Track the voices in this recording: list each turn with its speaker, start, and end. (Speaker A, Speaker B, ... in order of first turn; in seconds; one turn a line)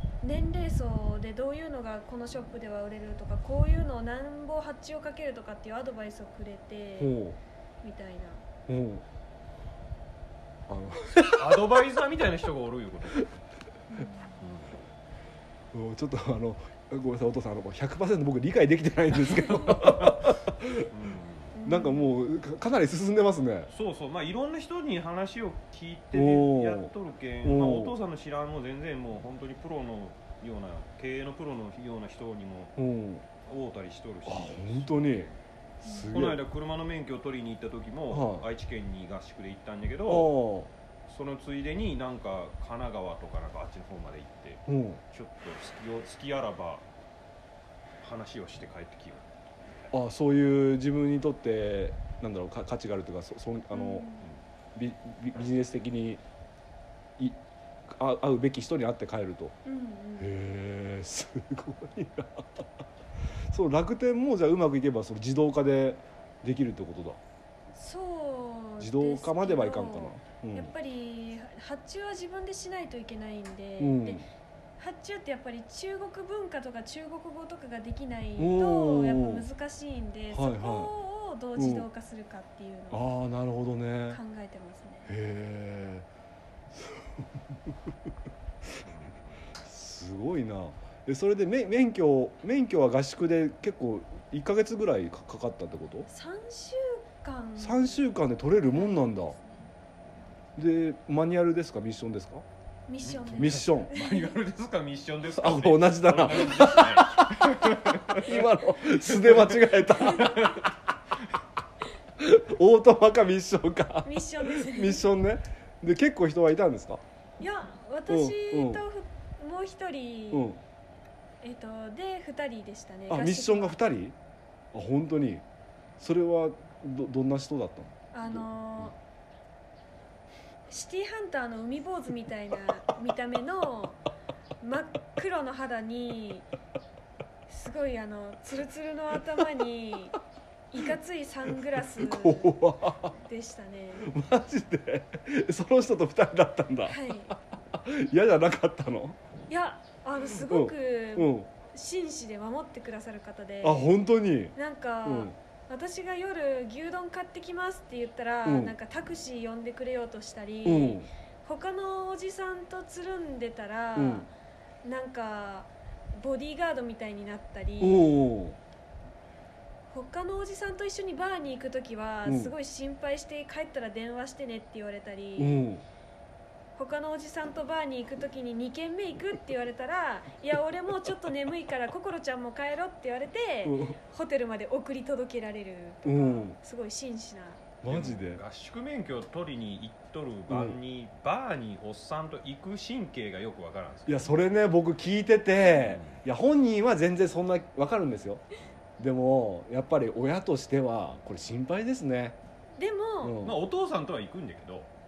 Speaker A: 0.2-7.2
Speaker B: 7.0-7.4
Speaker A: 7.8-8.4
Speaker B: 8.7-9.0
Speaker B: 10.7-11.9
Speaker C: 11.2-13.3
Speaker A: 13.9-14.3
Speaker C: 14.4-14.8
Speaker B: 15.7-20.9
Speaker C: 19.6-21.6
Speaker A: 21.5-22.1
Speaker B: 21.6-23.7
Speaker C: 23.7-32.8
Speaker B: 26.1-26.9
Speaker B: 27.4-28.0
Speaker B: 32.8-33.2
Speaker C: 33.5-35.3
Speaker B: 34.3-35.3
Speaker A: 35.8-36.1
Speaker B: 35.8-36.4
Speaker C: 36.1-40.3
Speaker B: 38.1-38.5
Speaker B: 40.1-40.7
Speaker C: 41.1-46.9
Speaker B: 44.7-45.0
Speaker C: 48.0-49.9
Speaker B: 49.9-54.1
Speaker A: 53.7-54.3
Speaker B: 54.8-56.2
Speaker B: 57.9-59.5
Speaker A: 59.6-60.4
Speaker B: 60.2-62.7
Speaker B: 63.5-67.2
Speaker A: 67.7-74.3
Speaker B: 68.8-70.7
Speaker B: 73.8-74.2
Speaker A: 74.8-83.1
Speaker B: 78.4-79.5
Speaker B: 80.3-80.9
Speaker B: 81.6-81.9
Speaker B: 82.9-84.2
Speaker A: 84.1-85.1
Speaker B: 85.1-86.1
Speaker B: 86.8-87.9
Speaker C: 88.8-89.5
Speaker B: 89.6-96.1
Speaker A: 96.1-98.0
Speaker B: 97.6-99.3
Speaker A: 98.6-99.7
Speaker B: 100.6-102.5
Speaker A: 102.9-104.3
Speaker C: 103.0-110.7
Speaker B: 103.3-103.9
Speaker B: 105.3-110.7
Speaker A: 110.0-110.4
Speaker B: 112.2-117.0
Speaker A: 114.0-115.0
Speaker A: 117.4-120.5
Speaker B: 118.1-118.8
Speaker B: 120.3-120.6
Speaker A: 121.4-123.8
Speaker B: 123.1-124.2
Speaker B: 124.7-125.4
Speaker B: 126.0-128.4
Speaker A: 128.1-129.0
Speaker A: 130.7-134.0
Speaker A: 134.6-136.5
Speaker A: 137.5-140.2
Speaker A: 140.7-142.6
Speaker B: 141.8-143.2
Speaker A: 143.2-144.2
Speaker B: 144.0-147.1
Speaker A: 146.8-147.4
Speaker B: 147.7-149.2
Speaker A: 149.5-154.0
Speaker B: 150.3-151.5
Speaker B: 153.6-154.5
Speaker A: 154.6-164.3
Speaker B: 155.1-155.3
Speaker B: 158.4-158.8
Speaker B: 160.7-161.1
Speaker B: 164.0-164.3
Speaker A: 164.8-168.2
Speaker B: 167.8-168.6
Speaker A: 169.9-175.6
Speaker B: 172.2-172.5
Speaker B: 175.4-175.8
Speaker A: 176.8-187.6
Speaker B: 183.7-184.0
Speaker B: 186.1-186.6
Speaker B: 187.8-188.4
Speaker C: 187.9-194.4
Speaker B: 190.5-190.8
Speaker B: 194.1-198.4
Speaker C: 195.8-196.2
Speaker B: 199.0-202.4
Speaker A: 202.8-203.4
Speaker B: 203.2-203.6
Speaker C: 203.4-204.9